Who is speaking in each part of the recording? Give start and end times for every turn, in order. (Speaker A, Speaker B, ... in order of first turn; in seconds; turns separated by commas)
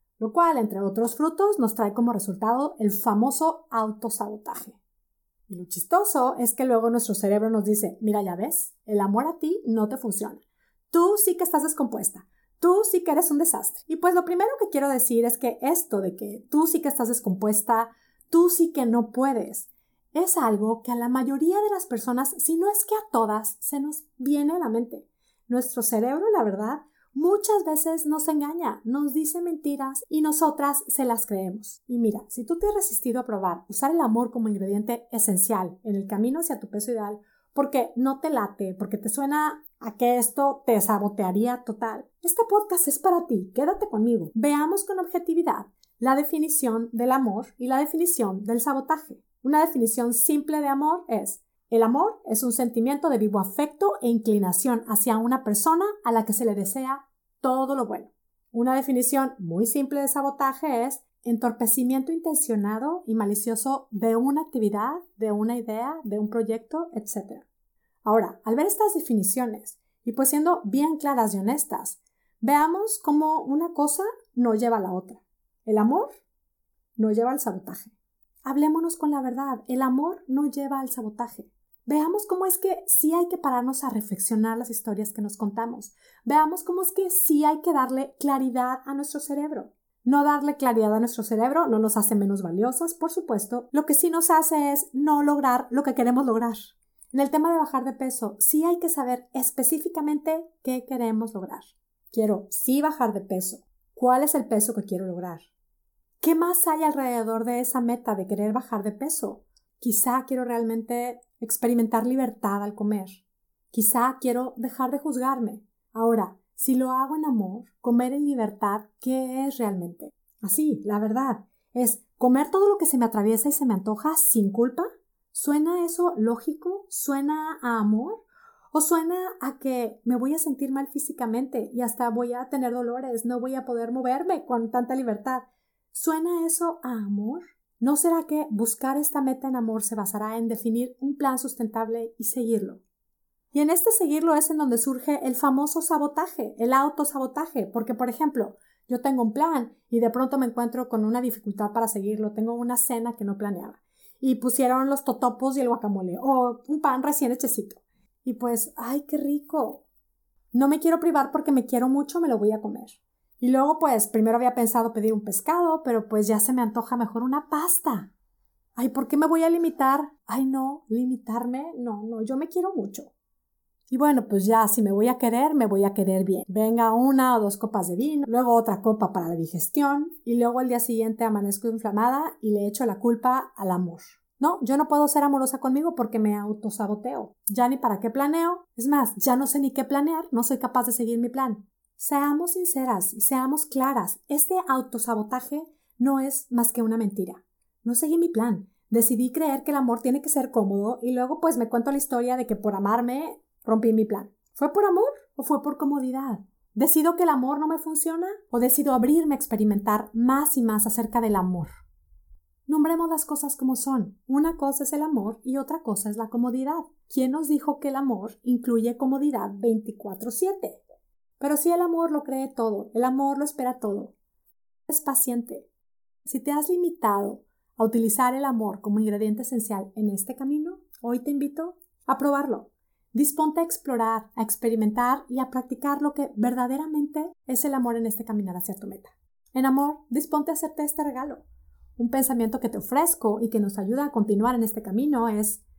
Speaker A: 0.2-4.8, Speaker A: 5.5-67.5, Speaker A: 68.0-76.1, Speaker A: 77.0-105.5, Speaker A: 106.2-142.8, Speaker A: 143.5-159.9, Speaker A: 160.5-168.1, Speaker A: 168.8-173.1, Speaker A: 173.9-211.7, Speaker A: 212.7-220.8, Speaker A: 221.4-224.1, Speaker A: 224.9-225.7, Speaker A: 226.2-241.5, Speaker A: 242.0-245.6